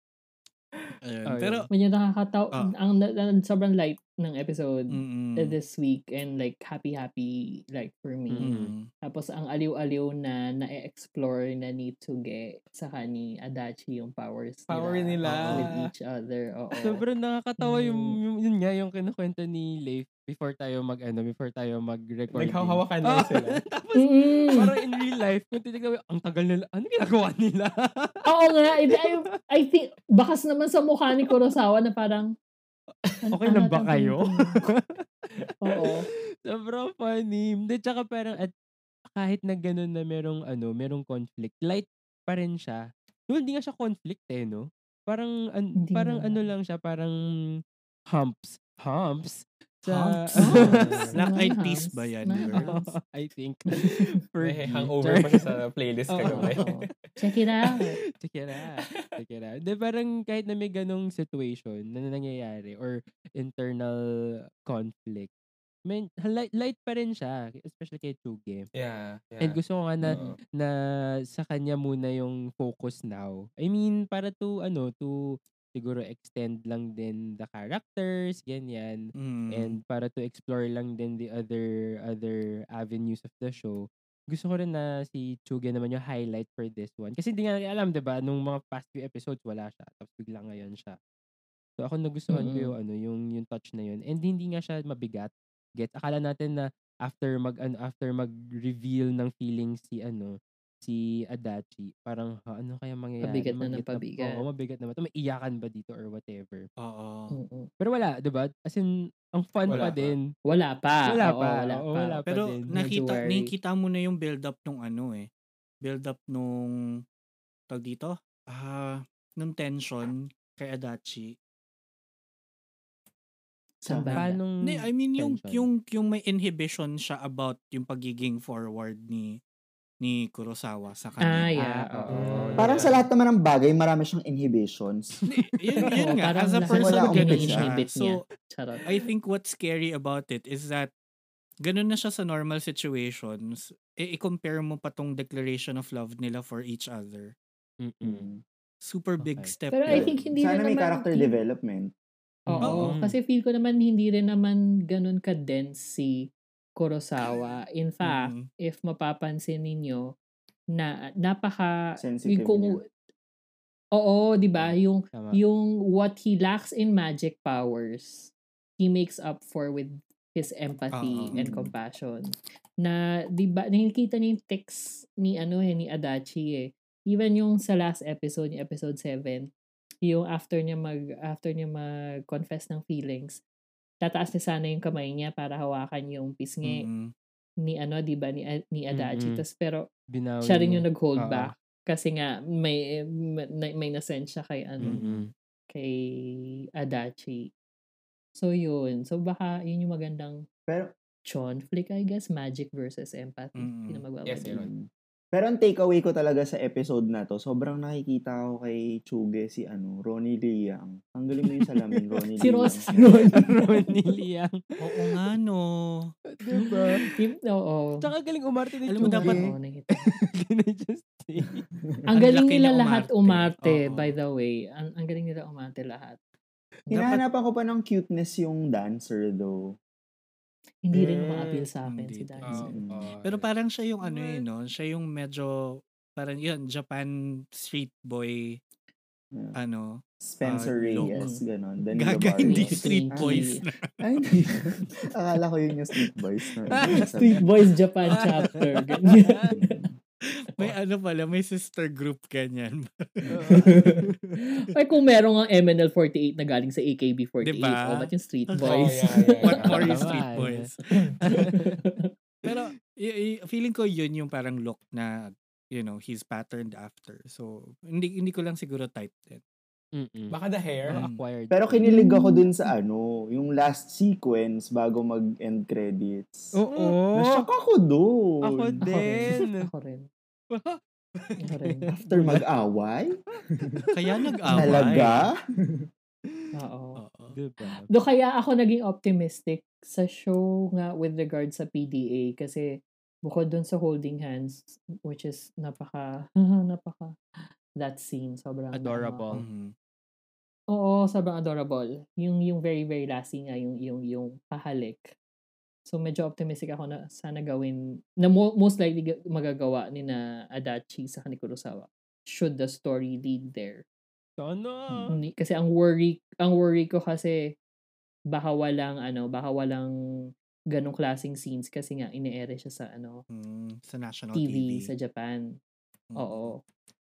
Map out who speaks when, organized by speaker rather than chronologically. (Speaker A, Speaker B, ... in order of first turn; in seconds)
Speaker A: 1.1-1.7, 4.9-5.6, 8.4-8.9, 49.9-52.7, 79.2-79.8, 106.8-107.4, 112.3-115.3, 115.8-116.8, 117.7-121.3, 124.1-129.4, 130.0-131.5, 135.3-138.2, 138.9-140.9, 141.6-147.3, 148.8-150.2, 152.6-153.0, 158.0-158.5, 170.9-171.3, 186.6-187.1, 203.6-204.0, 214.8-216.1, 218.9-219.5, 222.1-224.2, 226.9-227.2, 231.8-232.7, 233.2-238.6, 239.6-241.2, 242.0-243.9, 250.4-253.3, 257.4-260.8, 262.4-269.4, 270.9-271.2, 283.9-285.3, 287.0-287.3, 299.3-299.7, 323.3-324.9, 326.1-326.5
Speaker B: 1.3-1.7, 8.3-8.7, 15.3-15.7, 16.8-28.2, 28.9-29.3, 33.3-35.0, 36.5-38.5, 39.1-47.2, 48.1-51.2, 52.5-55.5, 56.2-56.8, 58.2-64.0, 64.7-65.3, 65.9-68.7, 69.4-70.7, 71.3-91.0, 91.8-106.7, 107.8-110.3, 111.1-112.7, 124.2-125.7, 131.6-132.7, 147.8-148.3, 149.2-149.5, 152.5-153.2, 165.1-165.4, 188.9-189.4, 190.1-191.5, 194.8-195.3, 213.3-215.1, 216.3-217.0, 218.0-221.6, 232.4-233.5, 248.1-249.5, 253.3-254.4, 259.5-260.7, 261.2-261.8, 270.0-270.4, 270.9-271.9, 276.5-277.5, 278.4-279.7, 280.5-282.4, 284.5-285.0, 287.3-287.9, 298.7-299.4, 314.4-315.2
Speaker C: 1.7-8.5, 9.0-17.0, 17.6-18.2, 23.9-24.7, 28.3-32.4, 33.2-34.6, 35.6-36.1, 45.8-46.5, 50.4-52.9, 53.7-54.1, 56.1-58.0, 92.3-92.8, 103.2-104.5, 107.3-107.7, 110.5-113.5, 123.8-124.4, 131.2-132.3, 135.9-138.9, 149.7-151.3, 152.5-160.1, 160.8-162.9, 163.9-179.5, 180.0-183.4, 184.0-186.9, 187.6-189.9, 190.4-195.0, 195.7-197.5, 198.4-200.5, 201.3-204.6, 212.4-213.6, 217.0-218.1, 219.0-220.1, 222.1-226.2, 230.8-232.7, 241.1-241.4, 242.4-243.6, 246.9-249.8, 253.5-254.0, 254.6-260.1, 260.9-262.1, 271.8-272.7, 278.8-280.1, 281.4-281.9, 286.6-287.0, 287.9-297.2, 297.8-299.3, 300.7-305.1, 305.9-313.8, 315.1-317.5, 318.3-319.9, 320.7-323.2, 324.4-325.6, 326.2-326.6
Speaker D: 14.7-15.8, 22.3-23.6, 54.4-56.8, 58.8-59.1, 68.7-69.6, 132.1-133.0, 204.2-204.7, 230.9-231.7, 258.6-259.9, 270.3-271.0
Speaker E: 123.8-124.2, 132.6-135.1, 136.7-137.7, 148.0-148.4, 149.9-151.9, 162.0-162.8, 171.3-171.7, 204.5-213.4, 226.9-229.7, 232.7-233.1, 240.2-243.5, 244.0-247.4, 249.5-249.9, 271.5-276.5, 277.1-278.8, 281.9-283.7, 284.5-285.9